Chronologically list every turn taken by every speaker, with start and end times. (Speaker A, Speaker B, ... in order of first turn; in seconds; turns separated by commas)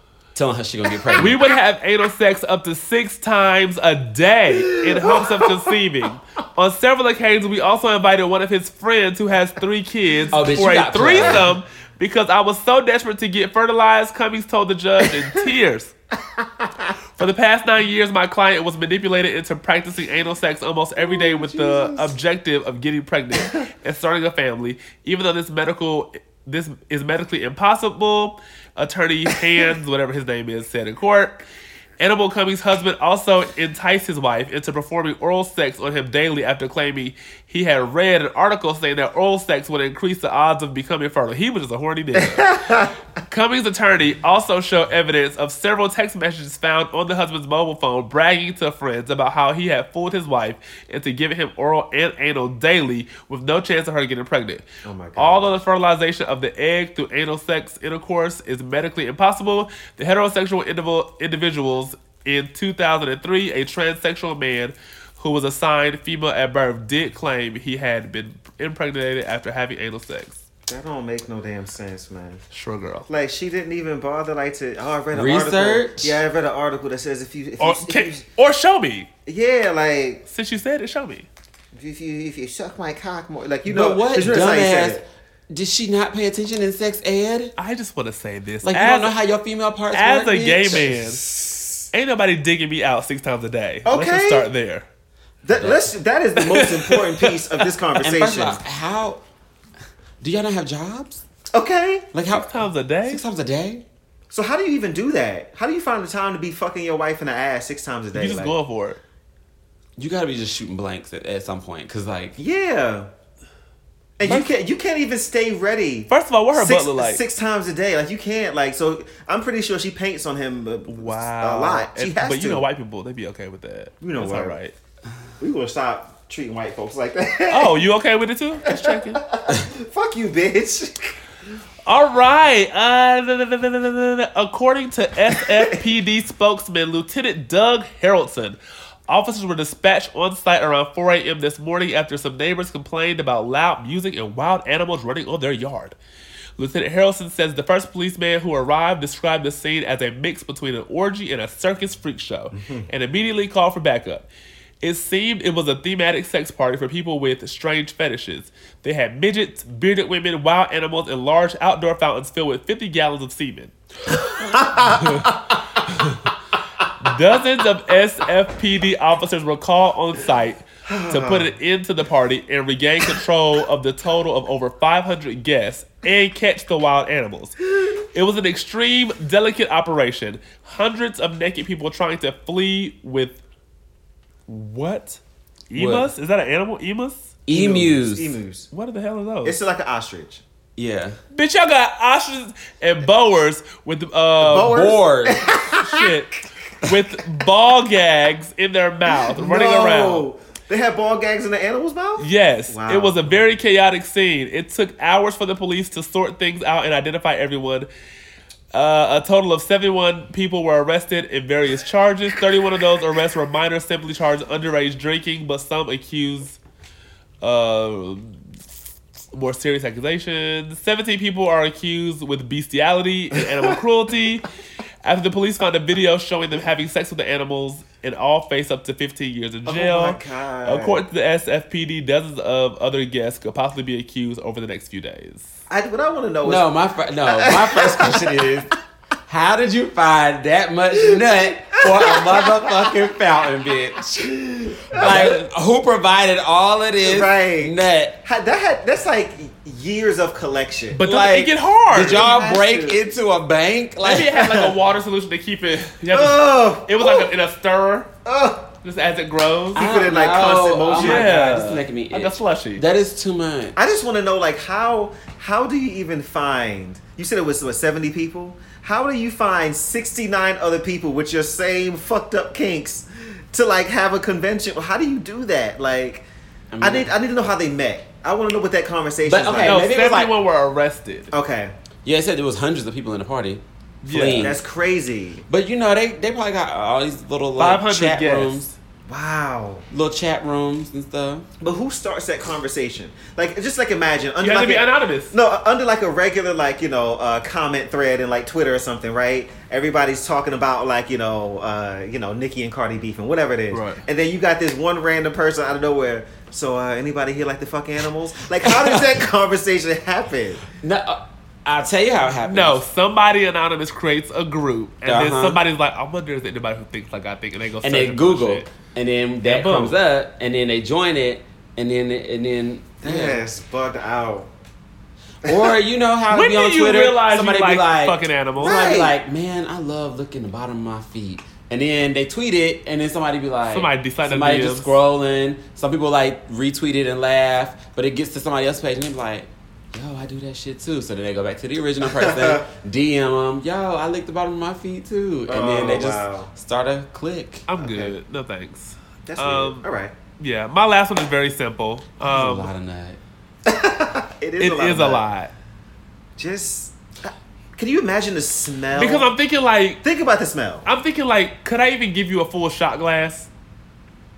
Speaker A: 0.3-1.4, Speaker B: 1.2-15.9, Speaker C: 4.5-5.8, Speaker A: 10.3-11.5, Speaker C: 16.4-16.9, Speaker B: 17.2-31.4, Speaker C: 21.0-22.1, Speaker B: 32.0-70.4, Speaker C: 42.2-42.9, Speaker C: 54.8-55.6, Speaker C: 70.7-72.4, Speaker B: 72.5-73.1, Speaker C: 73.1-78.2, Speaker A: 75.1-76.2, Speaker B: 77.6-79.1, Speaker C: 79.3-80.2, Speaker B: 80.3-81.3, Speaker C: 81.7-85.0, Speaker A: 83.7-87.5, Speaker B: 87.6-89.2, Speaker A: 88.6-90.9, Speaker B: 89.9-91.2, Speaker C: 90.8-91.6, Speaker B: 91.9-94.9, Speaker C: 93.9-94.5, Speaker C: 95.4-98.6, Speaker A: 95.5-95.9, Speaker B: 96.4-97.6, Speaker A: 98.0-99.2, Speaker A: 100.2-101.2, Speaker C: 101.5-102.1, Speaker A: 102.1-102.5, Speaker B: 102.3-103.2, Speaker A: 103.1-103.8, Speaker C: 104.3-108.5, Speaker B: 108.2-109.0, Speaker A: 110.0-112.4, Speaker C: 112.4-113.1, Speaker C: 114.2-122.7, Speaker B: 114.2-114.5, Speaker B: 116.1-117.2, Speaker B: 120.9-124.7, Speaker C: 124.0-124.6, Speaker C: 125.4-127.8, Speaker B: 127.5-129.2, Speaker C: 128.7-131.2, Speaker B: 131.9-138.6, Speaker C: 135.4-135.8, Speaker B: 139.1-146.0, Speaker B: 146.6-154.3, Speaker C: 152.5-152.9, Speaker B: 154.8-163.7, Speaker C: 164.1-165.6, Speaker B: 164.8-165.3, Speaker B: 165.9-166.3, Speaker B: 167.0-183.4, Speaker C: 170.9-171.5, Speaker B: 184.5-185.2, Speaker B: 185.7-187.4, Speaker A: 185.8-186.1, Speaker A: 187.5-188.4, Speaker C: 187.5-188.7, Speaker B: 188.7-189.6, Speaker C: 189.4-190.4, Speaker A: 190.8-191.2, Speaker B: 191.3-194.8, Speaker C: 194.4-196.1, Speaker A: 194.5-195.5, Speaker B: 195.7-200.3, Speaker C: 199.1-203.5, Speaker B: 202.2-207.9, Speaker B: 208.7-216.6, Speaker B: 217.4-218.4, Speaker B: 219.3-224.5, Speaker B: 225.0-235.6, Speaker C: 229.7-231.0, Speaker C: 235.7-236.7, Speaker A: 236.4-238.7, Speaker C: 237.3-238.4, Speaker A: 239.3-248.2, Speaker C: 241.8-243.1, Speaker C: 244.2-245.4, Speaker B: 245.0-245.4, Speaker C: 247.0-251.1, Speaker B: 250.9-252.3, Speaker A: 251.0-254.4, Speaker C: 252.0-253.0, Speaker B: 254.0-258.1, Speaker C: 254.3-254.8, Speaker C: 256.1-257.3, Speaker C: 258.2-258.7, Speaker B: 258.8-259.8, Speaker C: 259.7-261.3, Speaker A: 259.8-263.8, Speaker B: 260.9-262.8, Speaker C: 263.8-276.3, Speaker A: 276.7-277.1, Speaker C: 276.8-279.9, Speaker A: 279.2-280.3, Speaker B: 279.6-281.3, Speaker C: 281.3-281.7, Speaker A: 282.0-284.6, Speaker B: 284.0-284.6, Speaker C: 284.4-285.5, Speaker A: 285.5-288.7, Speaker B: 287.6-288.8, Speaker C: 289.1-289.9, Speaker A: 289.9-291.5, Speaker C: 291.6-310.6, Speaker B: 294.4-295.4, Speaker B: 303.7-304.0, Speaker A: 310.8-312.8, Speaker B: 312.4-318.7, Speaker A: 315.1-315.6, Speaker A: 317.8-323.4, Speaker B: 319.4-320.0, Speaker C: 323.0-324.5, Speaker A: 325.4-347.7, Speaker B: 326.3-328.8, Speaker C: 328.6-329.1, Speaker B: 333.7-335.0, Speaker C: 342.1-342.6, Speaker C: 345.5-346.5, Speaker B: 347.7-349.9, Speaker C: 347.8-348.1, Speaker C: 349.3-350.1, Speaker B: 350.4-352.7, Speaker A: 352.2-353.2, Speaker C: 353.7-355.3, Speaker B: 354.6-355.5, Speaker C: 356.4-359.3, Speaker B: 358.9-360.0, Speaker C: 360.0-360.9, Speaker B: 360.9-363.5